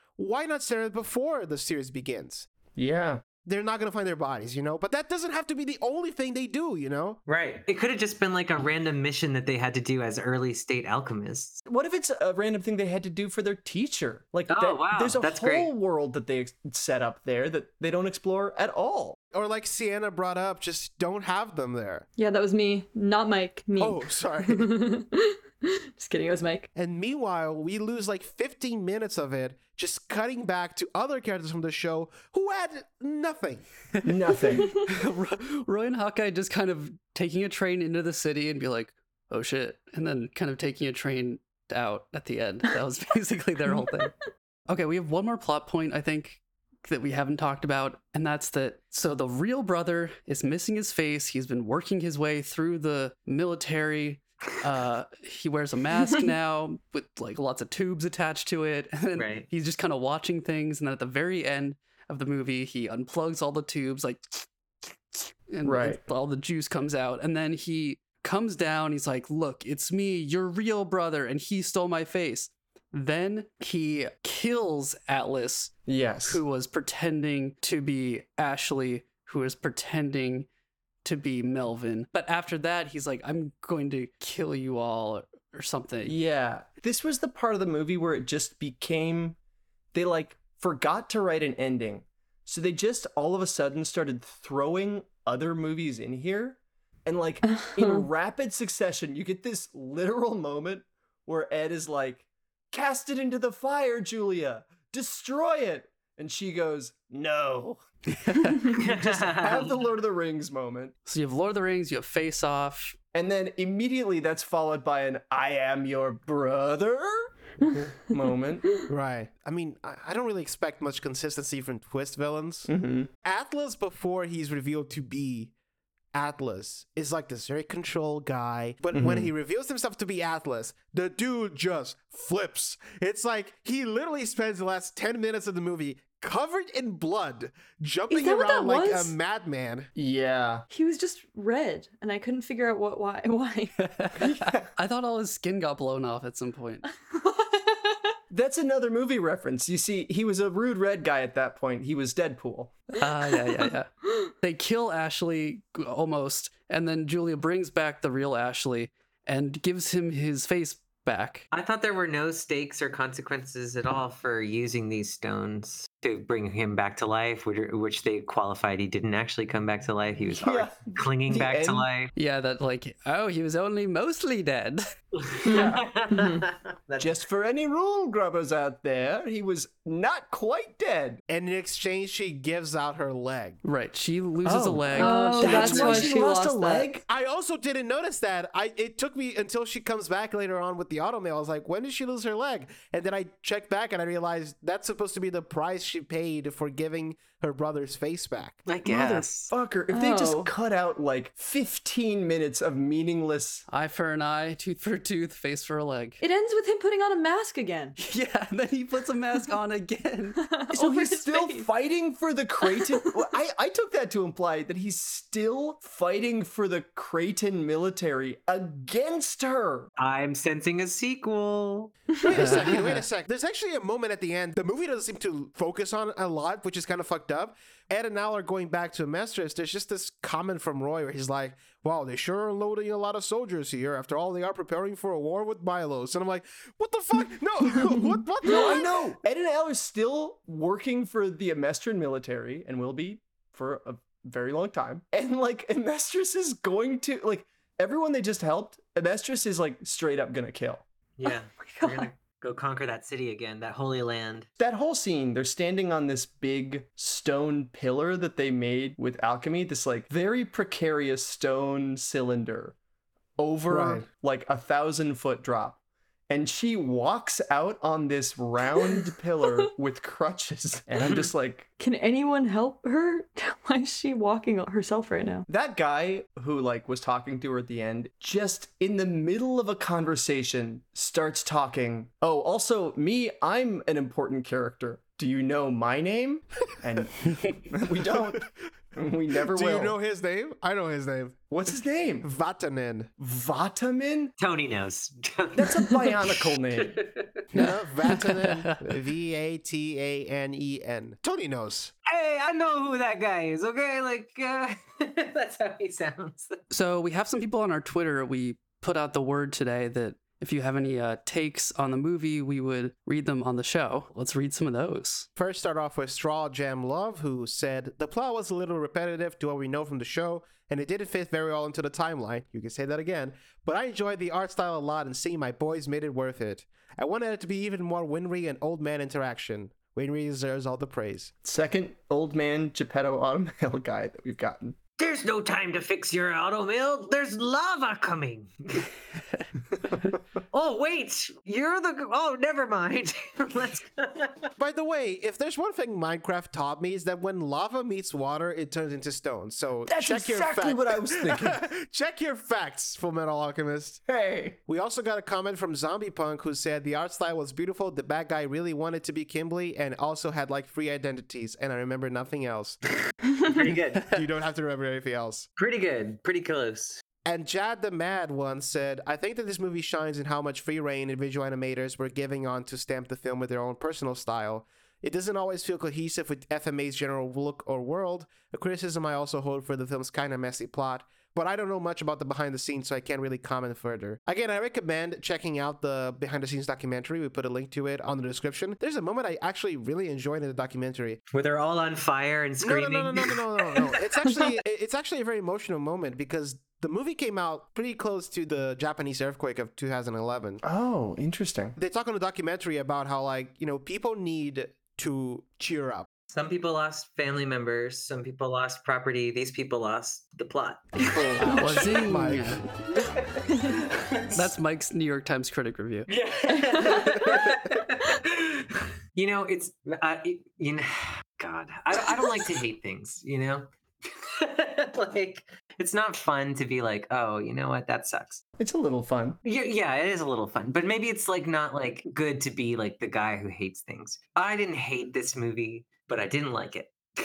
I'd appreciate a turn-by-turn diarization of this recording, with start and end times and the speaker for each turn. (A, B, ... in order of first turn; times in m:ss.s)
0:00.2-0:02.5 A
0:02.8-0:03.2 B
0:03.4-0:07.2 A
0:07.3-0:11.6 C
0:11.7-0:19.2 B
0:14.5-0:15.7 C
0:19.3-0:22.1 A
0:22.2-0:26.7 D
0:23.8-0:24.7 A
0:26.8-0:33.7 A
0:33.9-0:44.1 E
0:34.0-0:34.8 B
0:34.5-0:34.8 D
0:44.7-1:04.5 E
0:59.2-0:59.5 C
1:05.1-1:20.5 E
1:05.6-1:06.0 B
1:15.9-1:16.4 B
1:21.0-1:26.2 E
1:26.1-1:29.4 B
1:29.9-1:47.8 B
1:37.5-1:38.1 D
1:48.1-1:48.8 E
1:48.7-1:49.7 C
1:48.8-1:50.9 B
1:51.1-1:53.0 E
1:53.1-1:57.3 B
1:58.0-1:58.7 B
1:58.9-2:02.7 A
2:02.7-2:03.1 B
2:03.2-2:05.5 A
2:06.1-2:19.9 A
2:08.9-2:09.3 B
2:18.1-2:19.2 D
2:20.0-2:20.7 B
2:20.7-2:23.7 D
2:23.8-2:26.8 E
2:24.2-2:24.7 B
2:27.0-2:28.2 D
2:28.3-2:32.8 B
2:33.0-2:41.5 E
2:33.2-2:33.7 D
2:41.5-2:52.1 C
2:50.4-2:51.9 B
2:52.2-2:54.8 E
2:55.2-2:57.2 C
2:55.4-2:56.5 D
2:55.5-2:55.8 B
2:57.0-3:01.2 B
3:01.3-3:03.6 A
3:03.6-3:06.2 E
3:04.4-3:07.0 B
3:04.9-3:06.9 D
3:07.1-3:18.6 A
3:18.7-3:19.5 C
3:18.8-3:23.6 B
3:19.9-3:20.5 D
3:23.7-3:26.2 E
3:26.2-3:28.0 D
3:28.0-3:30.4 E
3:30.4-3:31.7 D
3:30.7-3:39.9 B
3:40.0-3:42.0 C
3:42.2-3:58.9 A
3:42.3-3:43.1 E
3:58.4-4:10.8 B
3:58.4-3:58.8 D
4:11.2-4:14.5 C
4:11.2-4:12.1 D
4:14.6-4:22.8 B
4:23.4-4:31.7 B
4:23.7-4:24.1 A
4:28.7-4:29.0 D
4:31.8-4:35.5 D
4:35.5-4:50.0 B
4:49.5-4:51.5 A
4:51.5-4:52.3 B
4:52.2-4:53.1 A
4:53.2-4:54.4 B
4:54.4-4:57.4 C
4:55.6-4:56.9 B
4:57.5-5:01.9 A
4:57.6-4:58.8 E
5:02.1-5:06.6 C
5:06.7-5:15.3 E
5:15.4-5:31.3 A
5:31.4-5:34.8 B
5:35.0-5:38.9 C
5:40.5-5:44.5 C
5:44.6-5:54.0 A
5:49.9-5:51.6 B
5:54.1-5:54.6 B
5:54.7-6:02.8 A
6:03.5-6:04.1 C
6:04.0-6:04.2 E
6:04.1-6:05.5 A
6:05.6-6:07.0 C
6:07.2-6:31.2 A
6:31.3-6:33.9 C
6:32.6-6:40.6 A
6:40.6-6:41.8 B
6:41.8-6:46.1 A
6:46.3-6:51.6 C
6:51.0-6:52.6 A
6:51.6-6:52.9 E
6:53.8-6:54.4 C
6:54.4-6:56.1 E
6:56.1-7:08.4 C
6:56.5-6:57.6 D
7:08.6-7:09.4 B
7:09.4-7:17.0 C